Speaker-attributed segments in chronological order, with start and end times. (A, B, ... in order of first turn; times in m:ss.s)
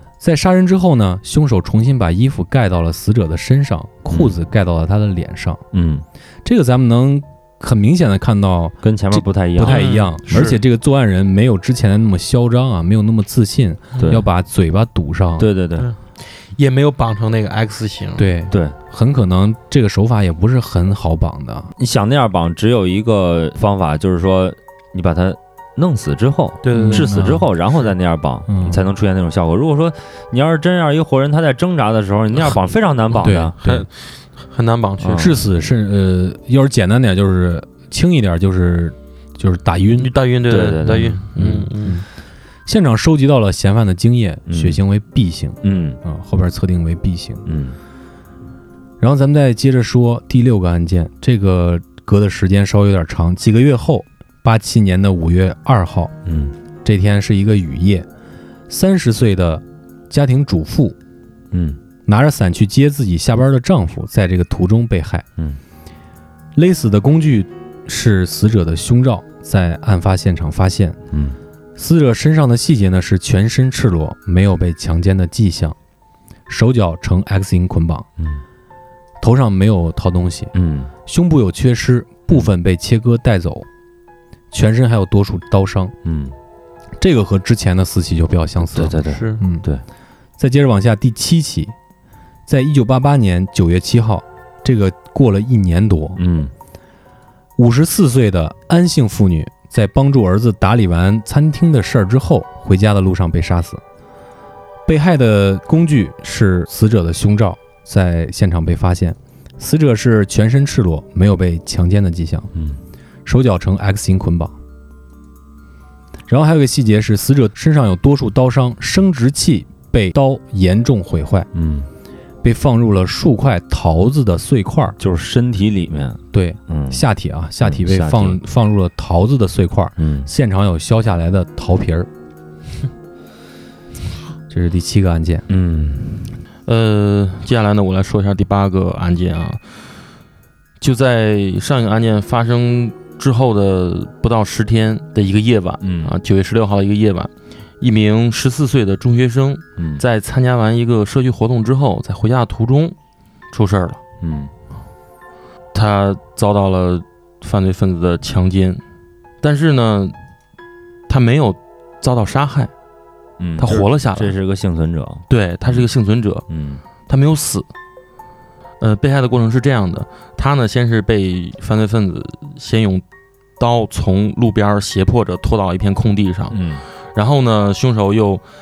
0:00.2-0:05.6 A
0:05.7-0:06.0 B
0:06.4-0:15.5 A
0:08.8-0:09.8 B
0:09.6-0:10.6 C
0:13.9-0:14.2 C
0:14.0-0:14.2 B
0:15.4-0:15.9 B
0:15.8-0:18.3 C
0:18.2-0:21.7 A
0:18.5-0:18.7 B
0:21.8-0:33.6 B
0:26.6-0:27.1 C
0:26.7-0:27.4 A
0:28.5-0:28.8 A
0:33.1-0:35.4 C
0:33.2-0:33.9 A
0:35.0-0:35.4 B
0:35.1-0:40.1 A
0:40.0-0:42.0 C
0:40.5-0:41.6 B
0:41.6-0:42.0 A
0:42.6-0:47.4 A
0:44.5-0:44.8 B
0:45.6-0:46.0 B
0:47.4-0:47.8 B
0:49.0-0:56.1 A
0:56.2-0:56.5 B
0:56.8-0:58.1 A
0:58.7-1:01.0 A
1:01.5-1:01.8 B
1:02.0-1:05.2 A
1:06.5-1:11.0 A
1:11.1-1:11.4 B
1:11.8-1:15.8 A
1:16.5-1:18.1 A
1:19.2-1:20.5 A
1:20.5-1:20.9 B
1:21.0-1:23.7 A
1:24.5-1:25.9 A
1:26.0-1:26.3 B
1:27.0-1:29.6 A
1:28.7-1:29.8 B
1:28.8-1:29.4 C
1:30.4-1:31.7 A
1:32.5-1:36.2 A
1:36.2-1:36.5 B
1:37.6-1:43.8 A
1:44.8-1:52.5 A
1:53.2-1:54.5 A
1:56.3-2:01.5 A
2:01.5-2:01.9 B
2:02.4-2:05.0 A
2:05.0-2:07.0 B
2:06.3-2:12.1 A
2:07.6-2:08.4 B
2:10.0-2:10.3 B
2:14.5-2:15.4 A
2:15.5-2:16.4 B
2:16.6-2:19.6 C
2:20.8-2:33.0 C
2:25.8-2:26.1 B
2:29.8-2:30.0 B
2:33.5-2:34.0 C
2:34.2-2:34.5 B
2:35.7-2:38.8 C
2:39.4-2:40.1 C
2:41.1-2:42.7 C
2:43.4-2:45.8 B
2:43.6-2:44.3 C
2:45.3-2:46.4 C
2:46.5-2:46.8 B
2:47.1-2:47.7 C
2:48.8-2:53.0 C
2:53.6-2:56.6 C
2:56.5-2:56.8 B
2:57.1-2:58.4 C